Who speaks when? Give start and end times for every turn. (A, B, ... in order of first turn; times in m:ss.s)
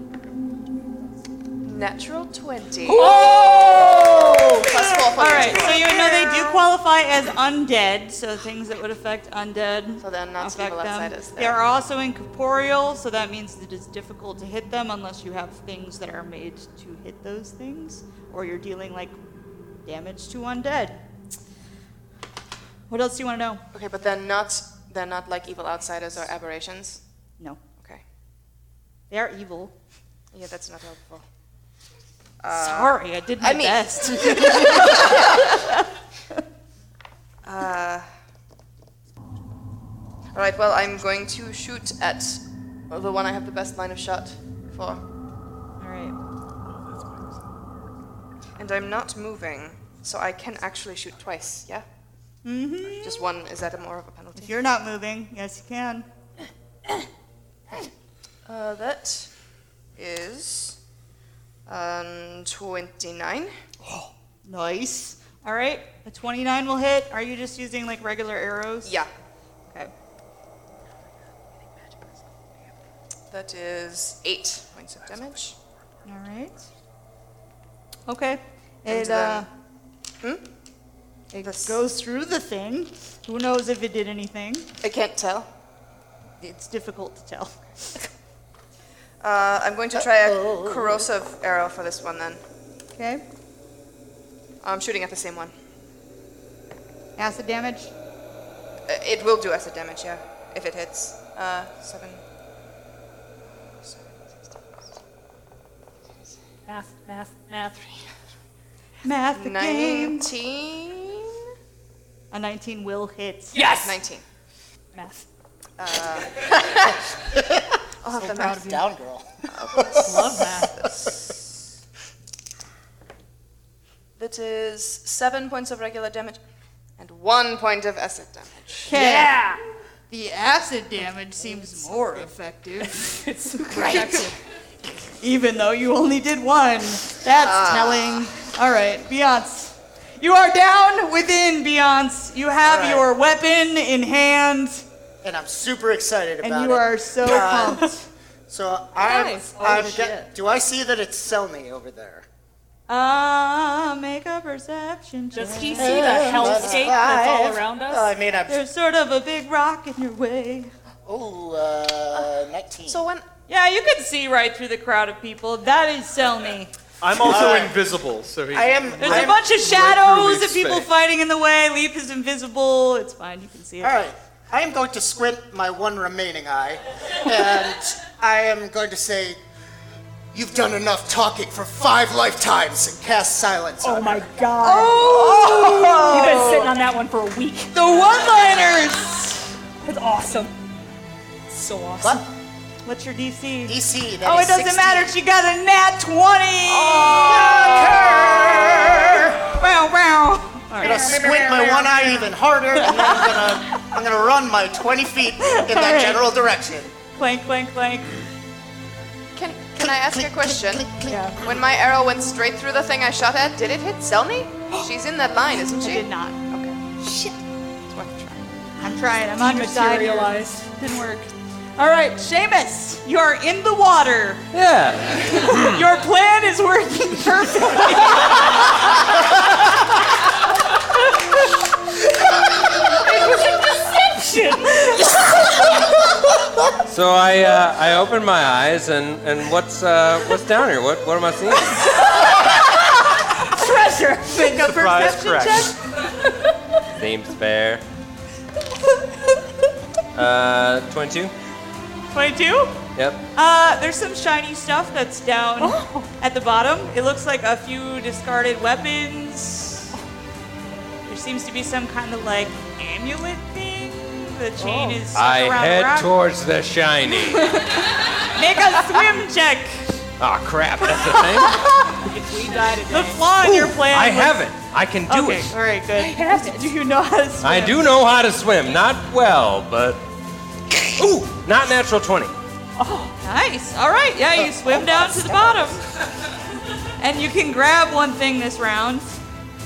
0:01.6-0:03.2 A
0:02.9-0:05.0 B
0:02.9-0:19.2 C
0:03.9-0:06.4 A
0:10.0-0:11.6 A
0:19.8-0:21.0 C
0:22.9-0:23.6 C
0:23.7-0:27.0 A
0:29.1-0:29.7 C
0:30.3-0:31.2 A
0:32.4-0:35.4 A
0:32.5-0:36.4 C
0:37.4-0:38.1 A
0:40.3-0:45.0 A
0:45.8-0:46.2 C
0:48.6-0:51.8 A
0:52.4-0:53.3 C
0:53.0-0:54.5 A
0:54.4-0:56.1 C
0:58.5-0:59.3 A
1:00.0-1:00.8 A
1:01.7-1:03.5 A
1:04.5-1:08.9 C
1:08.8-1:09.1 A
1:13.3-1:15.6 A
1:16.1-1:16.6 C
1:18.1-1:19.5 C
1:18.9-1:19.4 A
1:21.3-1:24.7 C
1:21.4-1:21.8 A
1:24.8-1:25.5 A
1:26.4-1:28.0 C
1:29.2-1:32.4 A
1:29.9-1:31.1 D
1:33.0-1:33.2 C
1:34.6-1:35.5 A
1:37.2-1:37.9 C
1:38.9-1:42.2 A
1:43.8-1:44.8 A
1:46.7-1:48.0 B
1:49.0-1:50.3 C
1:49.4-1:51.4 A
1:52.3-1:53.6 C
1:53.5-1:54.0 B
1:53.6-1:54.2 A
1:54.9-1:55.3 B
1:55.8-1:57.0 A
1:57.4-2:00.4 D
1:58.0-1:58.8 A
1:59.5-2:01.0 A
1:59.9-2:00.8 B
2:04.2-2:06.4 A
2:07.0-2:08.9 A
2:08.9-2:09.4 C
2:08.9-2:09.6 B
2:10.1-2:14.3 C
2:12.8-2:14.4 B
2:15.2-2:24.8 C
2:17.3-2:18.3 A
2:22.6-2:23.1 D
2:25.2-2:27.8 D
2:26.4-2:28.1 C
2:28.5-2:32.3 D
2:29.1-2:30.2 C
2:29.3-2:30.2 B
2:32.9-2:36.6 C
2:35.3-2:38.1 B
2:35.8-2:38.6 D
2:38.5-2:40.7 C
2:41.1-2:43.1 D
2:42.9-2:43.2 A
2:43.5-2:46.7 C
2:47.0-2:50.9 E
2:47.2-2:47.8 D
2:47.3-2:47.6 C
2:48.5-2:49.4 D
2:49.0-2:54.0 C
2:53.8-2:59.4 D
3:00.3-3:06.5 D
3:03.8-3:05.1 B
3:04.6-3:06.6 C
3:06.1-3:07.7 B
3:06.2-3:06.6 A
3:07.8-3:09.4 C
3:09.8-3:10.5 B
3:11.5-3:12.2 B
3:12.8-3:21.9 C
3:13.7-3:15.2 D
3:16.7-3:18.1 A
3:17.1-3:19.4 D
3:20.8-3:26.9 D
3:20.8-3:21.5 B
3:21.2-3:21.9 A
3:25.4-3:26.2 C
3:27.2-3:28.2 C
3:29.4-3:36.8 A
3:29.8-3:31.4 D
3:35.8-3:36.4 C
3:37.1-3:37.3 B
3:37.9-3:38.5 A
3:38.8-3:44.4 C
3:39.4-3:40.6 B
3:44.5-3:45.9 F
3:45.2-3:48.7 C
3:52.8-3:55.3 B
3:56.9-4:01.8 F
4:01.8-4:02.8 B
4:03.4-4:04.7 B
4:04.2-4:05.7 C
4:04.5-4:05.8 E
4:07.0-4:07.8 F
4:10.2-4:11.3 F
4:12.1-4:12.8 C
4:13.0-4:13.2 F
4:13.4-4:19.9 C
4:15.6-4:16.1 B
4:21.1-4:26.1 C
4:24.6-4:25.0 B
4:25.1-4:27.6 F
4:27.3-4:29.9 C
4:30.2-4:31.8 F
4:30.9-4:32.0 C
4:32.1-4:33.3 B
4:32.9-4:34.4 C
4:33.4-4:35.5 F
4:35.1-4:37.8 C
4:36.0-4:36.8 B
4:37.4-4:40.0 F
4:40.9-4:42.3 F
4:42.8-4:43.2 B
4:43.2-4:45.8 C
4:44.8-4:45.3 D
4:47.0-4:49.2 C